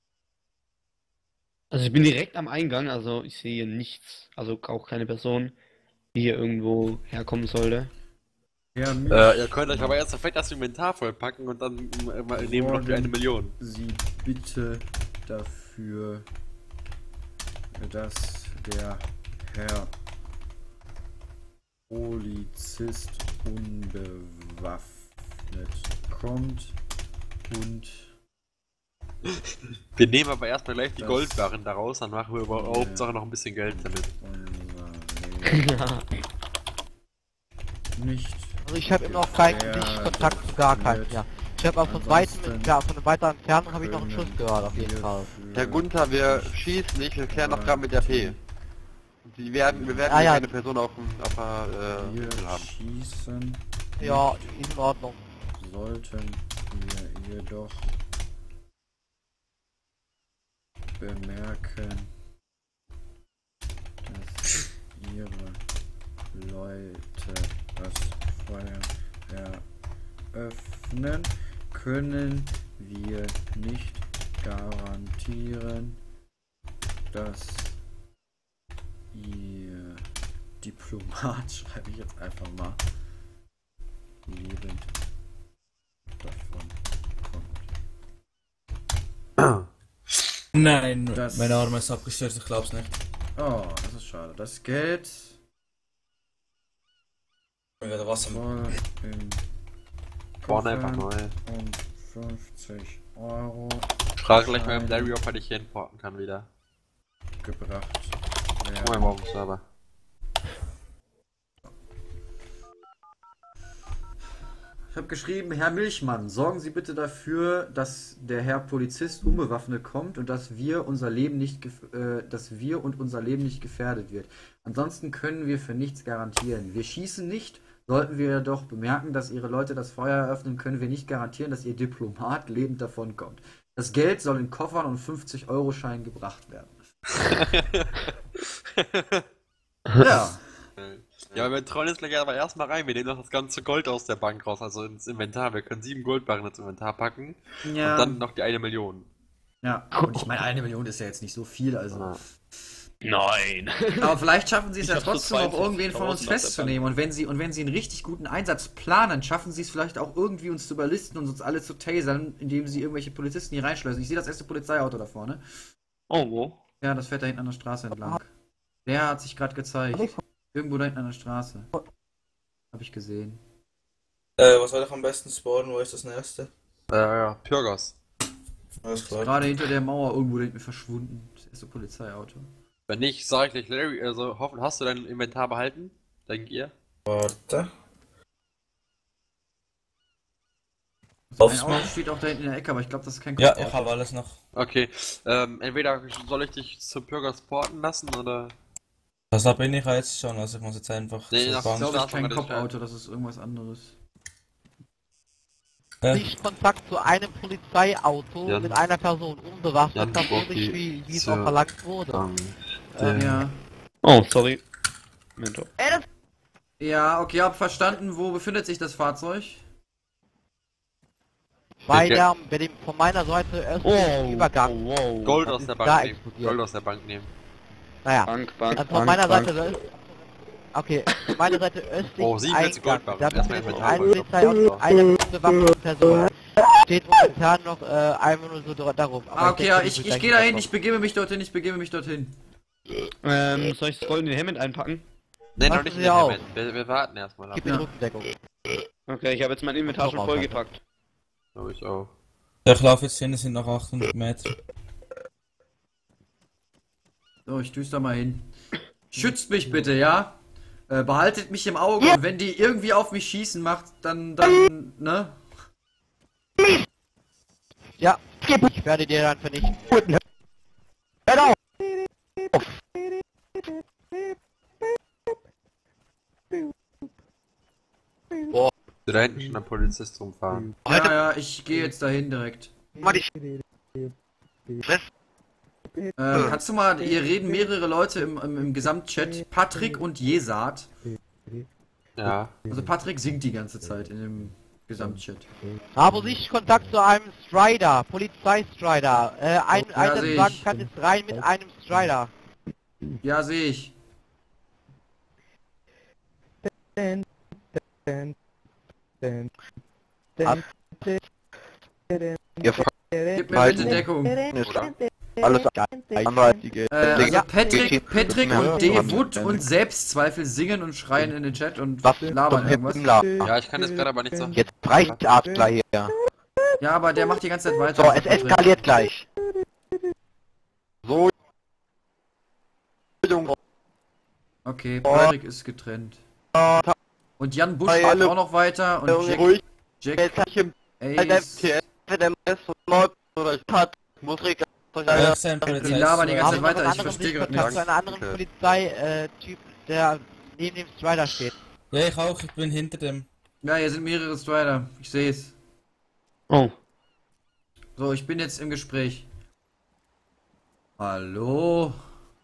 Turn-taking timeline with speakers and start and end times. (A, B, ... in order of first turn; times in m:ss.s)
0:01.7-0:05.5 A
0:06.1-0:07.9 A
0:08.7-0:10.0 B
0:09.1-0:13.5 C
0:12.3-0:16.3 B
0:17.8-0:19.9 B
0:21.9-0:26.8 B
0:27.5-0:28.1 B
0:29.9-0:34.1 C
0:31.0-0:31.5 B
0:32.5-0:33.1 B
0:33.6-0:35.8 B
0:35.4-0:36.1 A
0:38.0-0:41.2 B
0:38.6-0:45.3 D
0:41.8-0:42.8 B
0:43.7-0:48.4 B
0:45.5-0:48.3 E
0:49.2-0:52.7 E
0:49.6-0:50.0 B
0:50.0-0:50.5 D
0:51.9-0:54.5 B
0:54.0-0:55.2 D
0:55.6-0:57.9 B
1:01.0-1:02.1 B
1:04.0-1:05.6 B
1:06.3-1:09.6 B
1:10.3-1:16.0 B
1:17.1-1:17.8 B
1:19.1-1:20.0 B
1:20.6-1:22.8 B
1:24.2-1:24.9 B
1:26.2-1:27.7 B
1:29.4-1:29.7 C
1:30.5-1:32.9 F
1:31.1-1:31.7 B
1:33.4-1:35.4 B
1:37.8-1:38.4 F
1:38.2-1:39.4 B
1:40.4-1:45.2 B
1:40.5-1:41.3 C
1:44.2-1:46.5 C
1:47.4-1:49.2 B
1:48.8-1:49.6 C
1:54.9-2:16.8 B
2:17.2-2:19.2 C
2:20.0-2:20.4 B
2:20.8-2:29.1 C
2:27.6-2:28.2 B
2:29.6-2:32.2 B
2:29.9-2:30.3 A
2:31.9-2:32.2 C
2:33.0-2:34.2 A
2:34.0-2:45.4 B
2:34.8-2:36.9 A
2:46.1-2:46.6 A
2:46.8-2:48.3 B
2:48.8-2:51.7 B
2:52.7-2:53.4 B
2:54.4-2:56.5 F
2:56.9-2:58.0 C
2:58.8-2:59.4 F
2:59.1-3:02.5 B
3:02.9-3:06.7 C
3:07.0-3:07.7 F
3:11.3-3:13.9 B
3:11.4-3:11.9 F
3:13.4-3:14.4 F
3:14.5-3:18.5 C
3:19.3-3:21.9 F
3:21.3-3:22.7 C
3:21.6-3:24.0 B
3:26.1-3:32.2 D
3:28.5-3:28.8 C
3:29.9-3:31.6 C
3:32.1-3:33.5 C
3:33.1-3:33.6 B
3:34.0-3:34.6 A
3:35.4-3:35.7 A
3:36.8-3:39.6 B
3:41.8-3:44.8 D
3:41.9-3:42.2 C
3:43.8-3:45.4 A
3:45.2-3:47.3 C
3:45.4-3:46.6 D
3:48.0-3:50.0 D
3:48.2-3:49.7 A
3:50.7-4:00.7 D
3:52.2-3:54.8 C
3:59.3-4:02.4 B
4:03.2-4:05.0 A
4:05.6-4:07.7 C
4:05.6-4:06.4 D
4:07.5-4:08.3 D
4:07.6-4:07.9 B
4:09.1-4:10.8 A
4:09.8-4:10.6 D
4:11.5-4:12.1 C
4:12.6-4:14.5 F
4:17.4-4:18.5 B
4:19.1-4:25.4 B
4:28.0-4:30.1 D
4:39.0-4:40.7 C
4:40.8-4:41.2 D
4:40.8-4:42.7 B
4:43.0-4:43.3 D
4:46.2-4:50.9 B
4:52.2-4:52.5 C
4:52.6-4:55.5 B
4:56.0-5:02.3 D
4:59.9-5:00.7 B
5:03.2-5:03.9 B
5:12.6-5:12.9 D
5:13.3-5:14.4 B
5:13.5-5:14.9 E
5:13.5-5:13.8 D
5:14.6-5:14.9 C
5:15.4-5:19.6 E
5:15.5-5:16.6 D
5:16.9-5:23.1 B
5:17.1-5:19.6 D
5:22.0-5:23.5 D
5:23.4-5:25.3 C
5:24.5-5:26.1 D
5:26.8-5:28.9 B
5:28.0-5:29.1 D
5:28.9-5:29.2 E
5:31.0-5:31.3 E
5:33.2-5:33.6 E
5:34.6-5:36.2 B
5:36.5-5:36.9 E
5:37.4-5:40.4 B
5:37.9-5:38.3 E
5:39.2-5:39.6 E
5:40.2-5:48.4 E
5:41.0-5:41.8 B
5:45.1-5:46.8 F
5:45.2-5:45.7 D
5:45.8-5:47.9 B
5:46.4-5:51.5 D
5:51.9-5:53.3 F
5:53.6-5:55.6 B
5:56.5-5:56.7 A
5:58.0-5:59.3 B
6:01.0-6:01.9 B